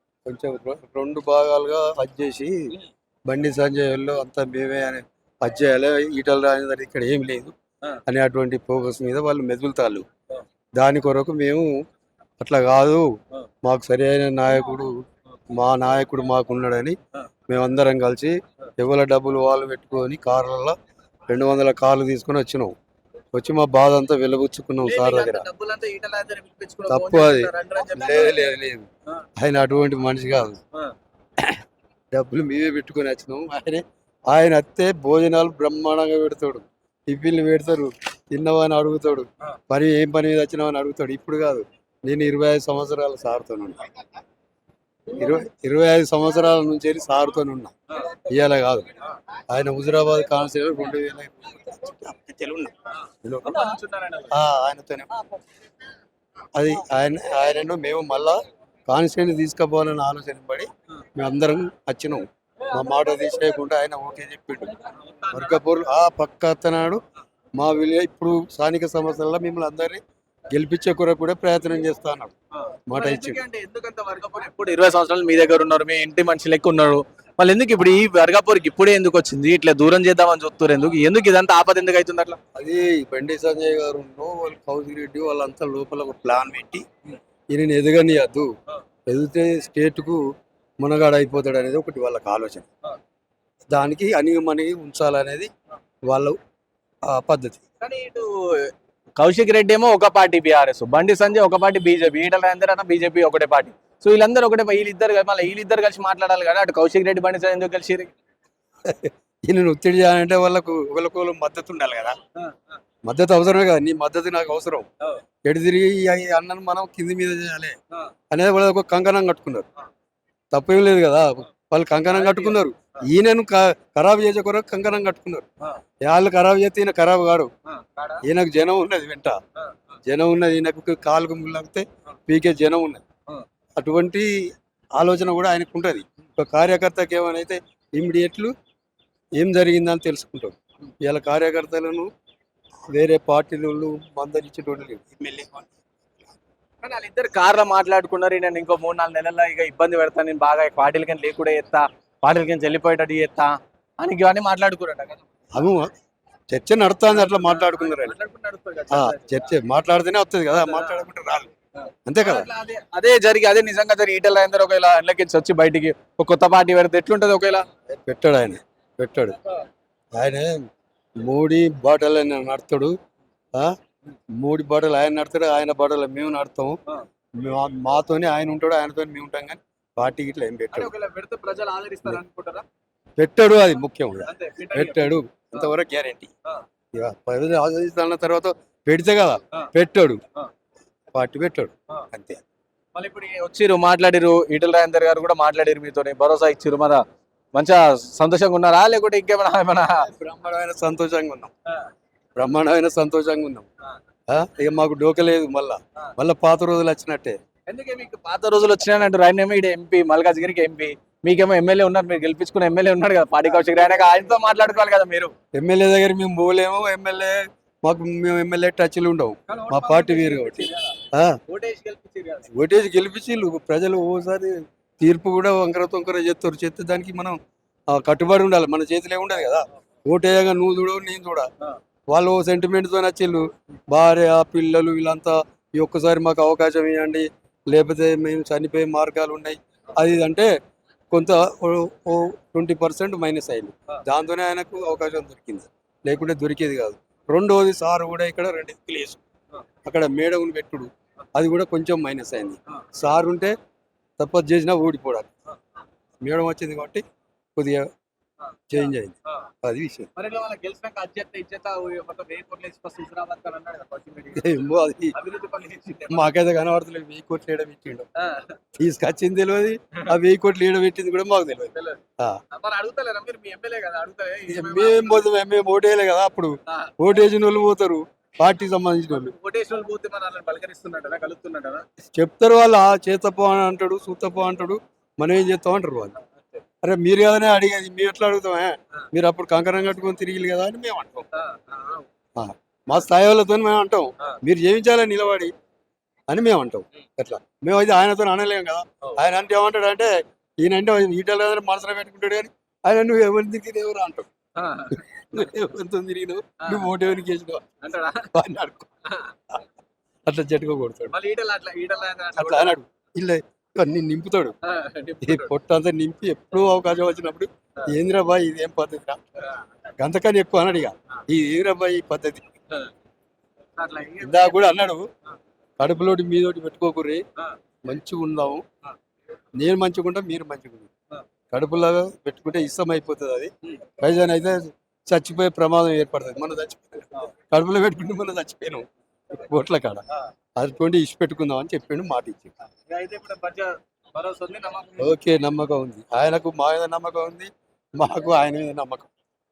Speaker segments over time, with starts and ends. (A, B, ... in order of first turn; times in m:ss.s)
0:00.2-0:02.7 A
0:03.3-0:07.6 A
0:08.1-0:10.0 A
0:10.8-0:11.8 A
0:12.4-0:13.1 A
0:13.6-0:15.0 A
0:15.5-0:17.0 A
0:17.5-0:20.8 A
0:21.3-0:22.8 A
0:23.3-0:25.5 A
0:24.8-0:28.5 B
0:26.9-0:30.6 A
0:32.1-0:43.9 A
0:45.1-0:48.9 A
0:49.5-0:53.8 A
0:53.0-0:54.4 B
0:54.3-0:55.2 A
0:56.6-1:04.8 A
1:04.9-1:05.6 B
1:05.3-1:07.0 A
1:07.6-1:12.3 A
1:12.6-1:22.4 B
1:12.9-1:13.4 A
1:22.6-1:26.8 A
1:27.5-1:28.5 A
1:29.1-1:30.2 A
1:30.8-1:32.7 A
1:33.7-1:35.5 A
1:36.1-1:36.4 A
1:37.1-1:37.6 A
1:37.8-1:48.1 B
1:48.8-1:52.2 A
1:52.4-1:52.8 B
1:53.0-1:54.9 A
1:55.4-1:57.8 A
1:58.3-1:59.7 A
2:00.5-2:05.5 A
2:02.1-2:03.0 B
2:06.0-2:07.5 A
2:07.7-2:08.2 B
2:08.2-2:09.4 A
2:09.6-2:09.9 B
2:10.1-2:13.0 A
2:13.8-2:18.5 A
2:19.4-2:22.1 A
2:22.9-2:26.3 A
2:26.8-2:35.2 B
2:35.5-2:35.9 A
2:36.5-2:38.2 A
2:37.1-2:39.5 B
2:38.9-2:41.5 A
2:40.5-2:41.0 B
2:41.8-2:47.6 B
2:42.1-2:42.5 A
2:47.9-2:49.4 A
2:50.1-2:50.7 A
2:51.2-2:53.0 A
2:54.4-2:56.8 A
2:57.4-3:00.9 A
3:00.7-3:02.6 B
3:03.2-3:06.3 A
3:04.2-3:05.7 B
3:06.9-3:10.2 A
3:11.1-3:12.4 A
3:13.0-3:17.0 B
3:17.5-3:20.1 B
3:20.1-3:21.5 A
3:22.4-3:23.7 A
3:24.3-3:27.4 A
3:27.7-3:35.3 B
3:35.5-3:41.4 A
3:39.5-3:42.5 B
3:42.5-3:47.4 A
3:47.9-3:51.5 A
3:52.1-4:00.5 A
4:01.1-4:09.2 A
4:09.8-4:13.6 A
4:14.2-4:15.3 A
4:16.2-4:17.0 A
4:17.6-4:17.9 A
4:18.7-4:20.1 A
4:18.8-4:19.5 B
4:20.2-4:24.5 B
4:24.3-4:25.2 A
4:25.1-4:26.3 B
4:26.1-4:28.1 A
4:28.2-4:28.6 B
4:28.8-4:32.4 A
4:31.7-4:32.0 B
4:32.5-4:35.3 B
4:34.5-4:39.3 A
4:36.7-4:37.1 B
4:39.1-4:41.8 B
4:42.2-4:46.2 A
4:46.8-4:51.3 A
4:51.3-4:52.1 B
4:52.4-4:55.5 A
4:56.3-5:04.3 A
5:04.6-5:05.6 B
5:05.3-5:07.7 A
5:06.6-5:06.9 B
5:07.8-5:08.3 B
5:08.3-5:08.9 A
5:09.1-5:09.4 B
5:10.3-5:11.1 A
5:11.1-5:12.8 B
5:12.4-5:14.6 A
5:14.6-5:15.5 B
5:15.2-5:19.2 A
5:19.4-5:19.7 B
5:20.0-5:22.4 A
5:23.8-5:24.7 B
5:24.2-5:25.1 A
5:25.8-5:27.2 A
5:27.8-5:28.6 A
5:29.6-5:30.9 A
5:31.5-5:40.0 A
5:40.6-5:42.5 A
5:42.9-5:45.2 B
5:45.0-5:49.1 A